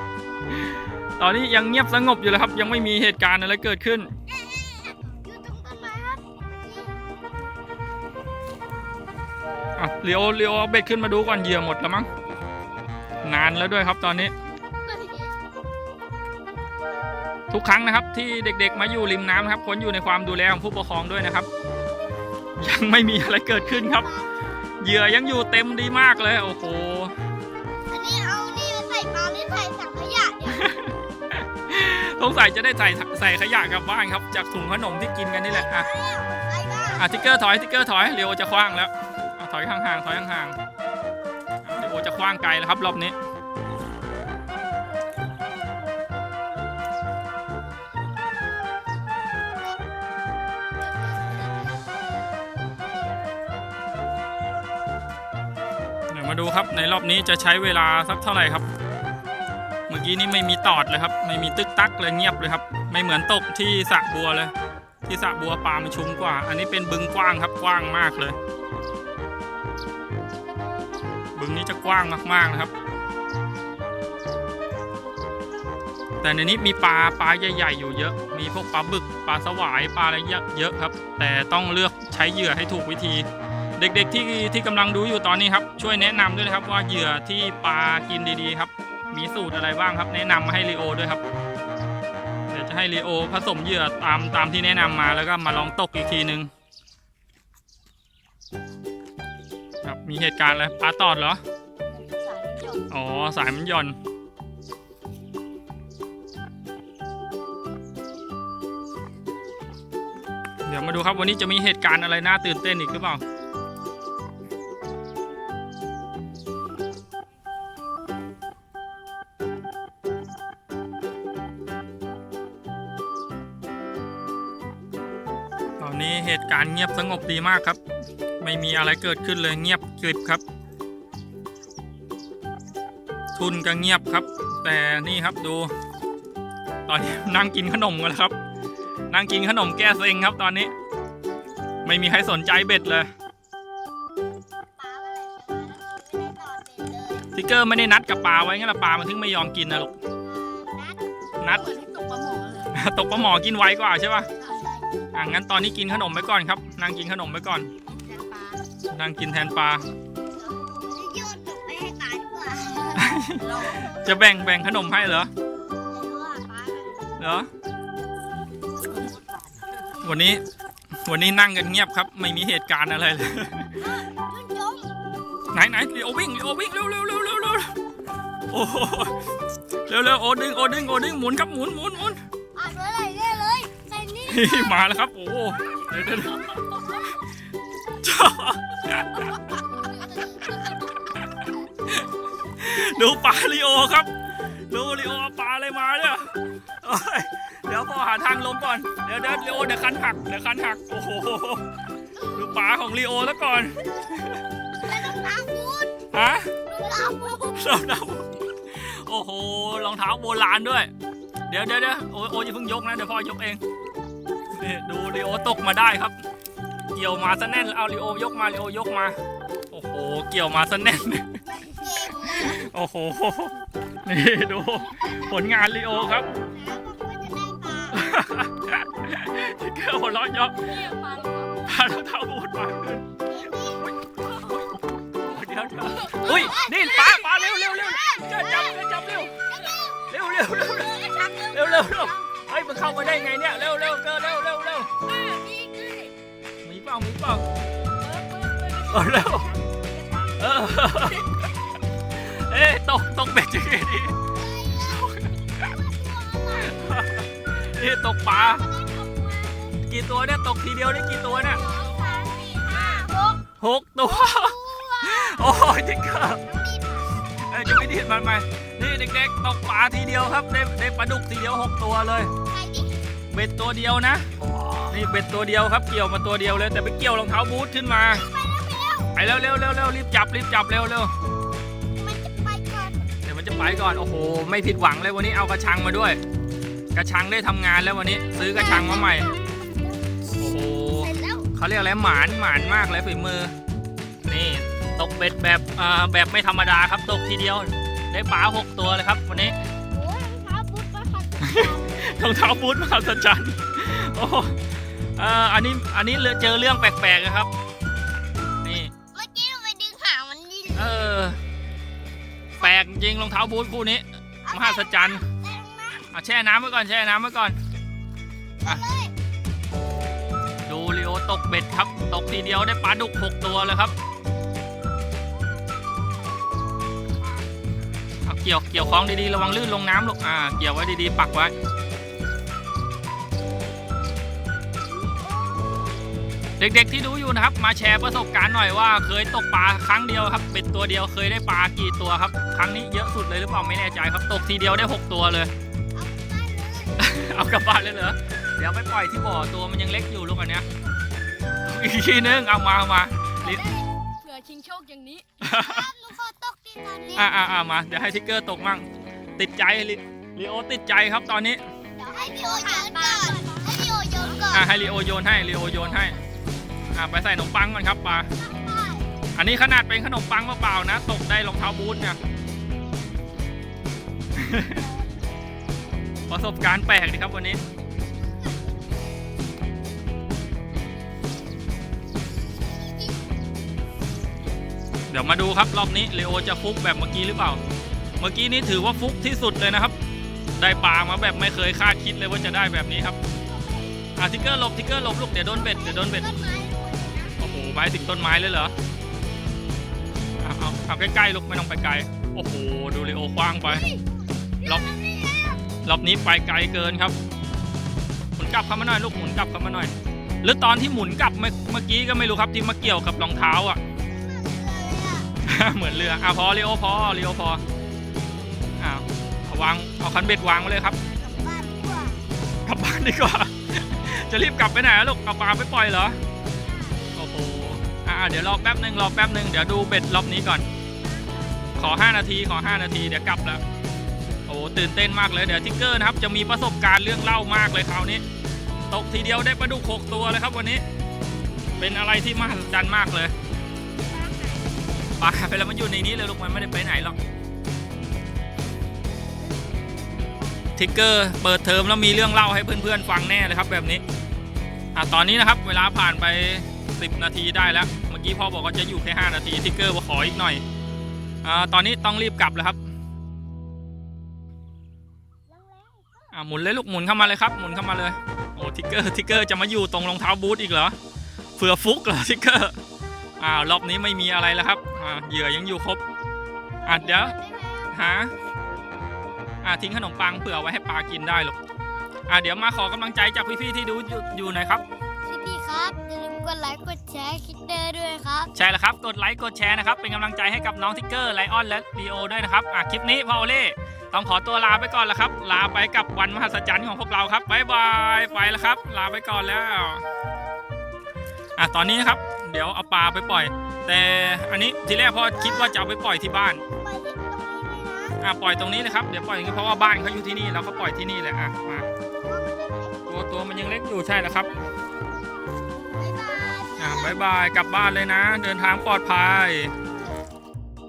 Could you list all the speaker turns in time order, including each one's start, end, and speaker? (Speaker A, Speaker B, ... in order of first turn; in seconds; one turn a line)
Speaker A: 0.5-4.1
Speaker B: 4.3-7.0
Speaker A: 9.8-12.1
Speaker A: 13.2-14.3
Speaker B: 14.9-15.2
Speaker A: 17.5-21.5
Speaker A: 22.6-24.1
Speaker B: 23.8-24.3
Speaker A: 24.8-27.1
Speaker B: 27.9-30.7
Speaker A: 30.5-30.9
Speaker A: 31.7-35.9
Speaker B: 35.5-37.1
Speaker A: 37.0-40.6
Speaker A: 41.6-43.2
Speaker A: 56.1-58.6
Speaker A: 59.9-64.5
Speaker A: 65.0-68.4
Speaker A: 71.4-72.7
Speaker A: 76.2-91.2
Speaker A: 92.5-96.5
Speaker A: 99.8-101.4
Speaker C: 101.9-102.8
Speaker A: 102.9-104.0
Speaker A: 110.7-113.2
Speaker A: 125.8-127.8
Speaker A: 128.4-130.4
Speaker A: 133.4-135.7
Speaker A: 136.9-138.3
Speaker A: 139.1-140.7
Speaker A: 141.8-143.1
Speaker B: 144.8-147.3
Speaker A: 147.3-149.9
Speaker B: 150.2-151.1
Speaker A: 151.4-151.7
Speaker C: 151.5-152.7
Speaker A: 152.7-154.3
Speaker C: 154.4-154.7
Speaker B: 154.4-154.8
Speaker A: 155.1-157.7
Speaker C: 157.9-158.6
Speaker A: 158.9-159.8
Speaker B: 160.4-163.8
Speaker A: 162.9-165.3
Speaker C: 163.3-163.9
Speaker B: 165.9-167.1
Speaker A: 167.2-167.5
Speaker A: 170.0-170.4
Speaker A: 171.1-173.7
Speaker B: 173.8-174.9
Speaker A: 175.5-177.7
Speaker A: 178.5-179.2
Speaker A: 179.8-182.2
Speaker B: 182.6-184.8
Speaker A: 184.3-186.6
Speaker A: 188.0-189.4
Speaker A: 192.6-194.1
Speaker A: 194.7-201.7
Speaker A: 202.3-204.4
Speaker B: 204.8-205.9
Speaker A: 206.1-206.5
Speaker B: 206.7-207.6
Speaker A: 207.5-210.9
Speaker A: 211.5-213.6
Speaker A: 214.6-216.2
Speaker A: 216.9-219.2
Speaker A: 219.7-221.4
Speaker B: 221.4-222.7
Speaker A: 222.3-226.3
Speaker B: 226.4-228.0
Speaker A: 227.9-230.8
Speaker C: 230.6-231.7
Speaker A: 231.6-233.1
Speaker B: 233.3-233.9
Speaker C: 234.4-234.7
Speaker A: 235.2-239.4
Speaker C: 235.8-237.0
Speaker B: 236.2-238.9
Speaker B: 239.5-242.1
Speaker A: 240.1-240.9
Speaker C: 241.0-241.4
Speaker A: 241.5-244.9
Speaker B: 242.9-243.1
Speaker C: 245.0-246.1
Speaker A: 246.6-247.5
Speaker C: 248.0-251.2
Speaker A: 248.9-249.5
Speaker A: 250.4-251.4
Speaker A: 252.1-254.2
Speaker B: 254.3-256.8
Speaker A: 254.9-255.7
Speaker A: 256.6-258.6
Speaker B: 258.2-259.8
Speaker A: 259.8-261.6
Speaker B: 261.3-263.4
Speaker C: 261.9-263.1
Speaker A: 263.6-266.4
Speaker B: 264.1-265.7
Speaker B: 266.4-267.2
Speaker A: 267.4-272.3
Speaker B: 272.5-272.9
Speaker A: 273.3-274.3
Speaker A: 274.9-278.2
Speaker B: 278.1-279.1
Speaker A: 279.1-281.1
Speaker B: 282.0-283.1
Speaker A: 283.2-286.2
Speaker A: 286.9-289.3
Speaker B: 288.4-290.1
Speaker A: 290.4-293.5
Speaker B: 291.0-291.5
Speaker A: 294.3-299.6
Speaker B: 299.9-302.1
Speaker A: 301.4-307.5
Speaker A: 308.6-308.9
Speaker B: 309.1-310.9
Speaker A: 310.8-311.4
Speaker A: 312.6-315.2
Speaker B: 314.4-316.1
Speaker A: 316.1-317.6
Speaker B: 318.6-319.1
Speaker A: 320.6-323.9
Speaker B: 325.4-326.2
Speaker A: 328.2-331.5
Speaker B: 335.1-335.6
Speaker A: 336.6-345.5
Speaker B: 345.9-347.1
Speaker A: 347.0-350.7
Speaker A: 351.6-353.6
Speaker B: 353.4-353.9
Speaker C: 354.2-355.2
Speaker A: 355.4-355.8
Speaker B: 355.4-357.5
Speaker A: 357.1-358.9
Speaker A: 359.4-361.6
Speaker B: 362.0-364.8
Speaker C: 362.3-364.6
Speaker A: 364.5-366.2
Speaker A: 366.9-368.3
Speaker B: 368.4-369.1
Speaker A: 369.4-372.2
Speaker A: 374.4-374.8
Speaker B: 374.6-375.3
Speaker A: 376.3-377.6
Speaker A: 385.1-387.6
Speaker A: 388.2-389.9
Speaker A: 390.6-393.2
Speaker B: 393.5-393.9
Speaker A: 394.2-396.3
Speaker B: 395.4-397.4
Speaker A: 397.4-398.7
Speaker A: 400.4-403.8
Speaker B: 403.7-405.6
Speaker A: 405.8-407.1
Speaker A: 408.4-413.8
Speaker B: 414.0-415.3
Speaker A: 415.4-417.6
Speaker A: 418.8-421.0
Speaker B: 421.2-422.2
Speaker A: 422.6-426.2
Speaker B: 426.6-427.0
Speaker A: 427.1-430.7
Speaker A: 431.8-433.6
Speaker A: 434.5-438.2
Speaker A: 438.9-440.8
Speaker A: 441.8-443.3
Speaker B: 444.1-444.8
Speaker A: 445.2-447.2
Speaker A: 450.8-454.0
Speaker A: 454.9-460.6
Speaker A: 461.4-462.8
Speaker B: 465.5-466.2
Speaker A: 466.3-471.0
Speaker A: 471.6-472.7
Speaker A: 473.4-476.0
Speaker A: 476.9-477.4
Speaker B: 476.9-477.9
Speaker A: 477.9-478.3
Speaker A: 479.6-481.6
Speaker A: 482.3-484.8
Speaker B: 485.3-488.5
Speaker A: 488.6-500.0
Speaker A: 501.6-506.6
Speaker B: 505.3-505.8
Speaker B: 506.7-508.2
Speaker A: 508.2-511.9
Speaker B: 512.2-513.0
Speaker A: 513.1-514.5
Speaker B: 516.0-517.2
Speaker A: 516.8-519.7